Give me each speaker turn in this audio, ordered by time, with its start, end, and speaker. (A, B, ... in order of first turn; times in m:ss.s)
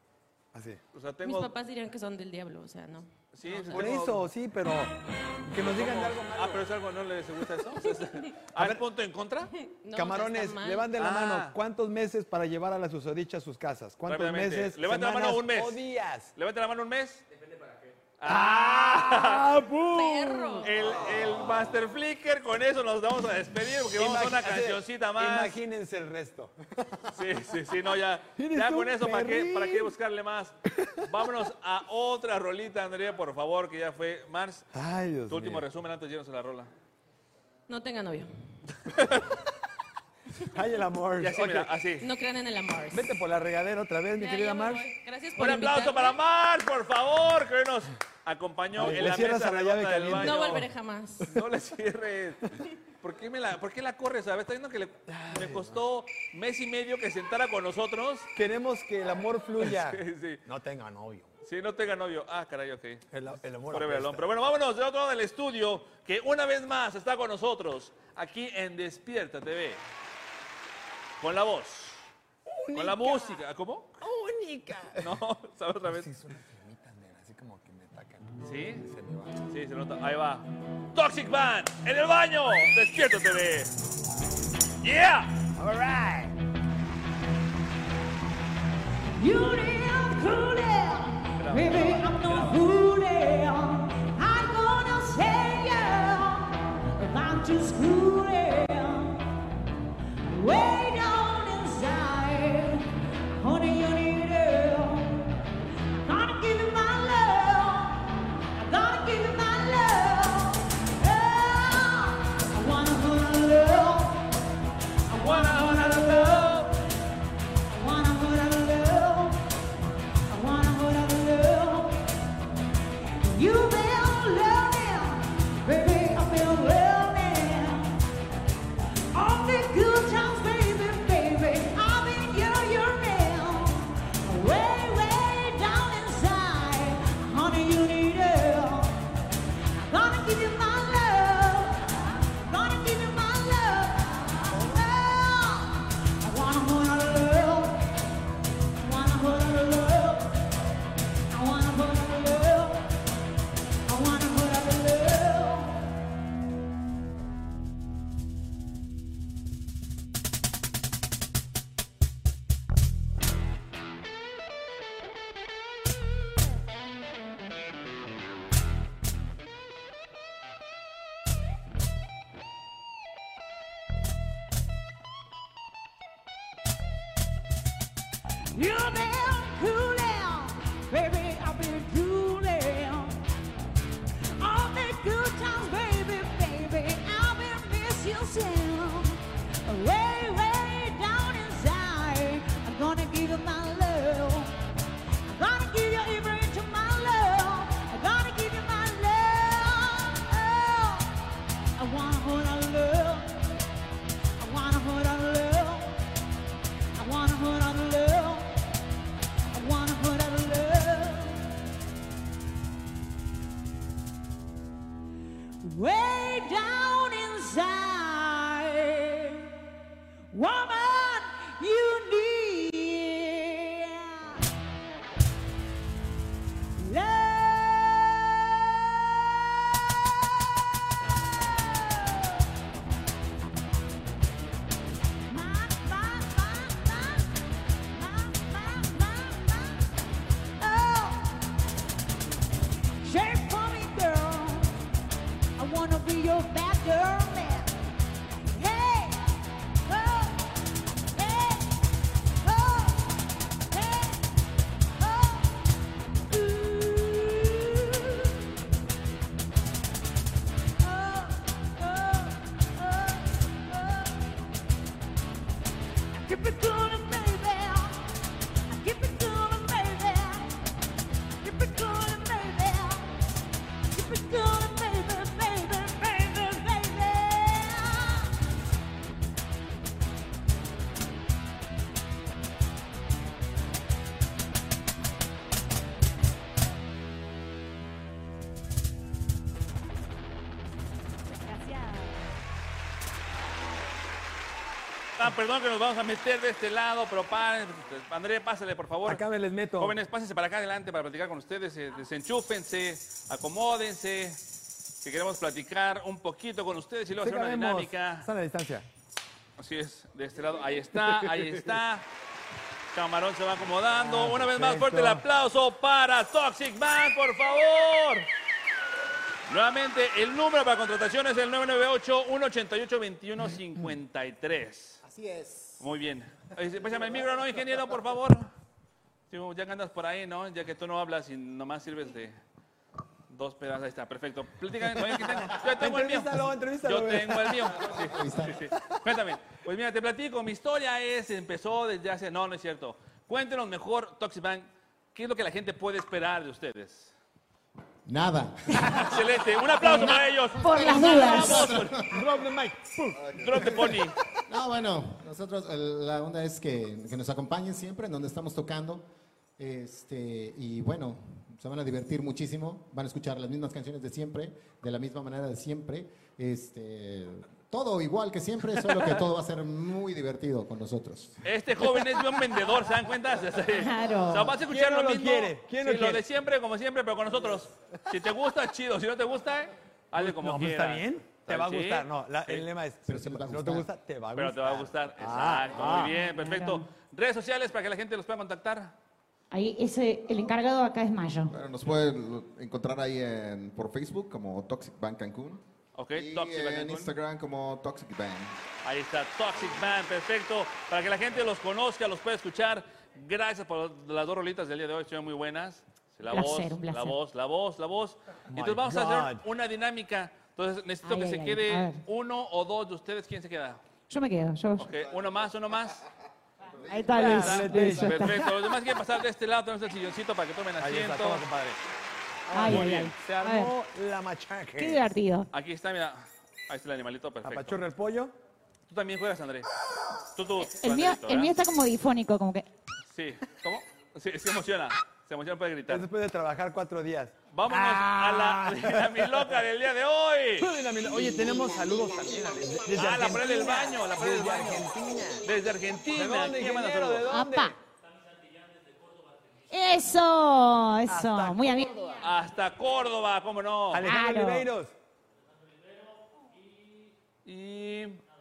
0:00.5-0:00.8 A
0:00.9-0:01.5 B
0:01.2-0:03.9 C
0:03.3-0:04.3 B
0:03.7-0:06.7 A
0:05.6-0:09.5 B
0:07.8-0:08.2 C
0:08.5-0:08.8 A
0:09.5-0:10.9 C
0:09.9-0:16.3 A
0:11.0-0:11.6 B
0:14.1-0:15.8 B
0:16.4-0:17.2 B
0:18.2-0:19.5 B
0:18.2-0:20.7 A
0:19.9-0:20.7 C
0:20.6-0:25.6 B
0:24.0-0:27.4 A
0:27.1-0:34.7 B
0:28.4-0:29.9 A
0:30.7-0:31.1 A
0:34.7-0:35.7 A
0:35.3-0:36.7 B
0:37.7-0:38.3 C
0:38.8-0:39.4 B
0:40.4-0:41.7 A
0:41.2-0:42.1 B
0:42.0-0:43.1 C
0:42.9-0:44.8 A
0:44.2-0:46.2 C
0:45.4-0:50.7 B
0:48.7-0:50.7 A
0:50.2-0:51.4 C
0:51.2-0:58.3 B
0:55.1-0:55.8 A
0:58.4-1:01.3 A
0:59.6-1:00.4 B
1:01.4-1:03.1 B
1:03.1-1:04.3 A
1:03.7-1:09.8 B
1:11.2-1:12.1 B
1:12.5-1:13.4 A
1:12.7-1:14.0 B
1:14.0-1:15.2 A
1:15.0-1:16.1 B
1:15.9-1:19.4 A
1:18.4-1:18.8 B
1:19.5-1:23.8 B
1:24.8-1:25.5 B
1:25.6-1:26.4 A
1:29.2-1:39.3 D
1:31.3-1:32.7 B
1:40.2-1:45.4 D
1:46.0-1:54.3 D
1:55.1-1:56.7 D
1:55.2-1:56.7 B
1:57.7-1:59.4 D
2:00.3-2:02.0 D
2:03.1-2:08.0 D
2:09.1-2:19.0 D
2:19.9-2:27.8 D
2:28.8-2:30.4 D
2:31.3-2:33.0 D
2:33.9-2:35.8 D
2:58.5-3:03.2 D
3:04.4-3:14.6 D
3:15.3-3:21.1 D
3:21.8-3:23.6 D
3:24.4-3:26.0 D
3:27.0-3:28.6 D
3:29.5-3:31.5 D
3:35.6-3:39.5 D
3:40.3-3:44.4 D
3:46.8-3:50.5 D
3:51.4-3:52.5 D
3:55.3-3:57.4 D
3:57.9-3:59.9 D
4:00.6-4:01.4 D
4:03.0-4:04.8 D
4:05.6-4:07.8 D
4:08.5-4:10.5 D
4:11.1-4:11.8 D
4:12.4-4:14.3 D
4:15.0-4:15.6 D
4:16.3-4:18.4 D
4:20.8-4:24.2 D
4:26.1-4:28.1 D
4:28.7-4:30.6 D
4:31.4-4:33.1 D
4:33.9-4:38.3 D
4:51.5-4:52.1 D
4:55.2-4:59.2 B
4:59.0-5:00.0 A
4:59.8-5:04.4 B
5:05.0-5:08.3 B
5:07.2-5:08.9 A
5:09.6-5:12.1 B
5:11.0-5:11.6 A
5:12.9-5:18.3 B
5:14.0-5:15.2 A
5:19.5-5:25.0 B
5:25.0-5:25.8 E
5:25.8-5:28.5 B
5:29.3-5:32.4 B
5:33.3-5:47.1 B
5:35.2-5:38.0 A
5:38.0-5:38.7 E
5:48.1-5:52.3 E
5:48.9-5:52.0 B
5:49.8-5:51.8 D
5:52.1-5:54.0 A
5:53.2-5:53.9 F
5:53.4-5:54.2 B
5:54.5-6:11.4 E
6:11.4-6:22.7 B
6:13.7-6:14.6 D
6:14.6-6:16.2 A
6:20.1-6:26.2 A
6:23.1-6:23.9 E
6:24.4-6:29.0 B
6:25.9-6:26.9 D
6:29.5-6:31.5 D
6:31.5-6:38.6 F
6:36.0-6:37.1 B
6:38.8-6:53.8 B
6:46.3-6:47.2 D
6:48.5-6:49.4 A
6:51.0-6:52.0 D
6:54.1-6:54.9 D
6:54.8-6:56.0 B
6:56.6-6:58.7 D
6:57.1-6:58.5 A
6:57.1-7:01.5 B
7:00.8-7:01.8 A
7:02.5-7:05.0 A
7:02.5-7:03.7 D
7:02.6-7:03.1 B
7:04.8-7:05.5 D
7:05.5-7:07.8 B
7:07.4-7:08.4 A
7:08.9-7:09.7 B
7:10.3-7:11.6 B
7:10.6-7:12.7 D
7:13.1-7:16.1 B
7:15.9-7:19.6 A
7:17.5-7:20.7 B
7:20.6-7:25.5 A
7:22.9-7:24.9 B
7:25.4-7:27.3 B
7:26.1-7:27.8 A
7:27.3-7:27.8 D
7:29.7-7:31.9 D
7:31.1-7:32.3 A
7:32.2-7:34.1 B
7:33.9-7:34.9 A
7:34.0-7:34.7 D
7:37.4-7:38.2 B